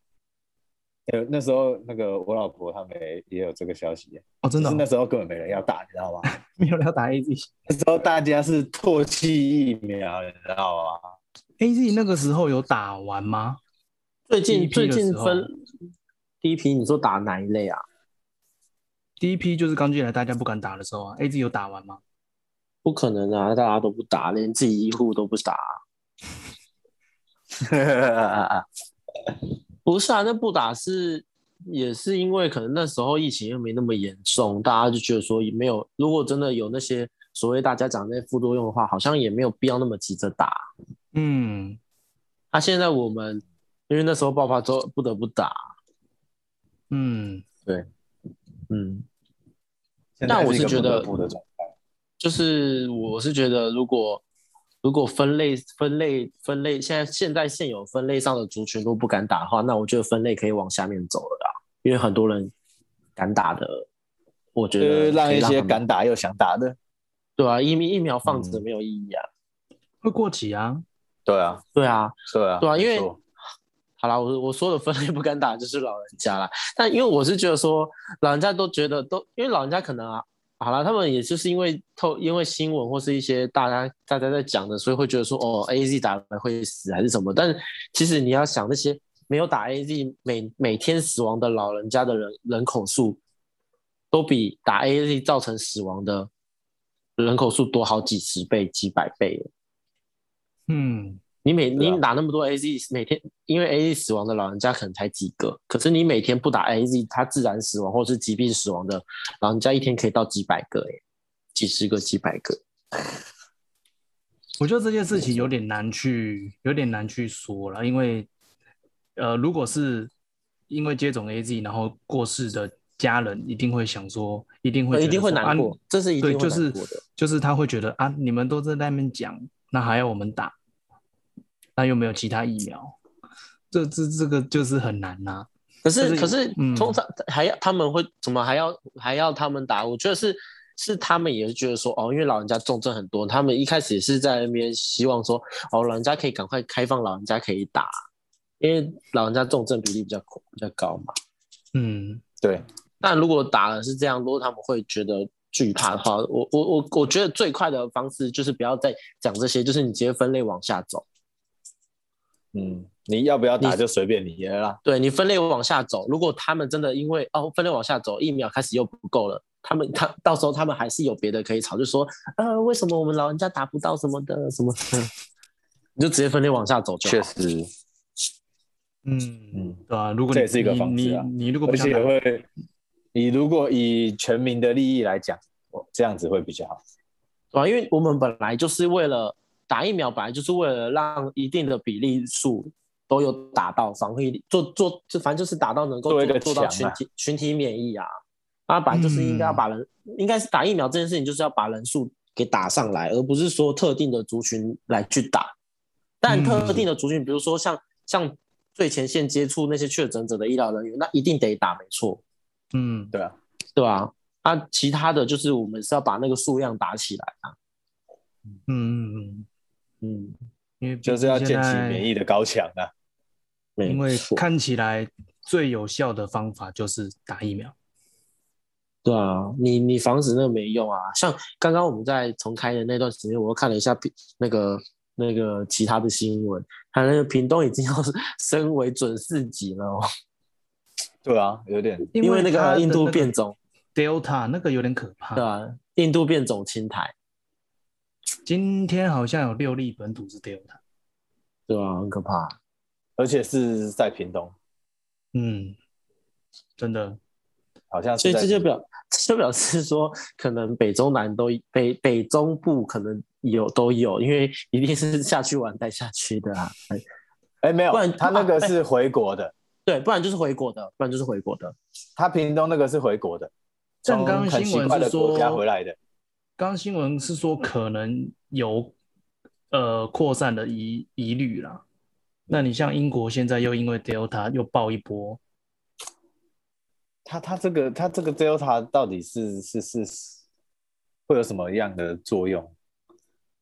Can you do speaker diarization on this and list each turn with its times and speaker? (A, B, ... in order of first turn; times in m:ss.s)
0:01.1-0:06.3 A
0:04.4-0:04.8 B
0:06.3-0:07.5 B
0:07.7-0:11.1 A
0:11.6-0:13.6 B
0:14.3-0:15.5 C
0:14.5-0:15.5 B
0:16.4-0:17.8 C
0:19.2-0:22.0 B
0:22.8-0:25.8 C
0:27.6-0:28.7 A
0:29.9-0:40.6 C
0:41.1-0:41.8 B
0:42.5-0:45.6 C
0:46.9-0:47.4 B
0:48.7-0:49.1 C
0:50.2-0:51.7 A
0:50.3-0:51.1 C
0:52.2-0:54.2 C
0:54.8-1:02.5 C
1:03.2-1:03.8 C
1:04.6-1:05.8 C
1:04.8-1:06.8 A
1:07.4-1:09.3 C
1:08.3-1:08.6 A
1:10.0-1:10.8 B
1:11.3-1:11.6 A
1:11.8-1:13.1 C
1:12.3-1:13.2 A
1:14.0-1:33.2 C
1:34.1-1:36.3 C
1:37.2-1:39.5 C
1:40.7-1:41.2 B
1:41.4-1:51.0 C
1:51.6-1:52.6 C
1:54.6-1:58.3 B
1:59.2-2:00.1 B
2:00.7-2:10.6 B
2:04.9-2:07.0 C
2:11.8-2:13.0 B
2:13.7-2:17.0 B
2:15.8-2:27.9 C
2:28.6-2:31.1 C
2:31.7-2:32.2 B
2:33.0-2:41.1 C
2:42.5-2:44.8 A
2:44.8-2:55.1 C
2:56.0-2:57.3 C
2:57.0-2:57.7 A
2:59.0-3:02.1 B
3:00.3-3:02.5 A
3:03.1-3:06.8 A
3:07.5-3:18.1 C
3:16.1-3:17.0 A
3:18.7-3:25.5 C
3:18.9-3:19.6 B
3:26.2-3:32.2 C
3:26.3-3:26.9 B
3:32.7-3:33.1 B
3:33.8-3:37.6 C
3:38.7-3:39.5 B
3:40.0-3:40.4 C
3:40.8-3:42.1 B
3:41.0-3:42.9 A
3:43.8-3:44.4 C
3:43.9-3:47.7 B
3:49.0-4:00.1 C
4:01.2-4:02.1 A
4:02.1-4:03.3 B
4:02.2-4:03.6 C
4:04.0-4:05.4 B
4:05.4-4:07.1 C
4:08.4-4:10.8 B
4:11.7-4:12.6 C
4:13.2-4:14.5 A
4:15.3-4:15.8 B
4:16.8-4:17.2 B
4:17.9-4:18.6 A
4:18.2-4:27.0 C
4:27.6-4:29.5 A
4:27.9-4:28.7 C
4:29.9-4:31.8 C
4:32.2-4:33.5 A
4:34.0-4:36.0 A
4:34.1-4:35.6 B
4:36.6-4:38.9 B
4:39.7-4:41.8 B
4:42.5-4:45.4 B
4:47.2-4:50.4 A
4:51.3-4:52.7 A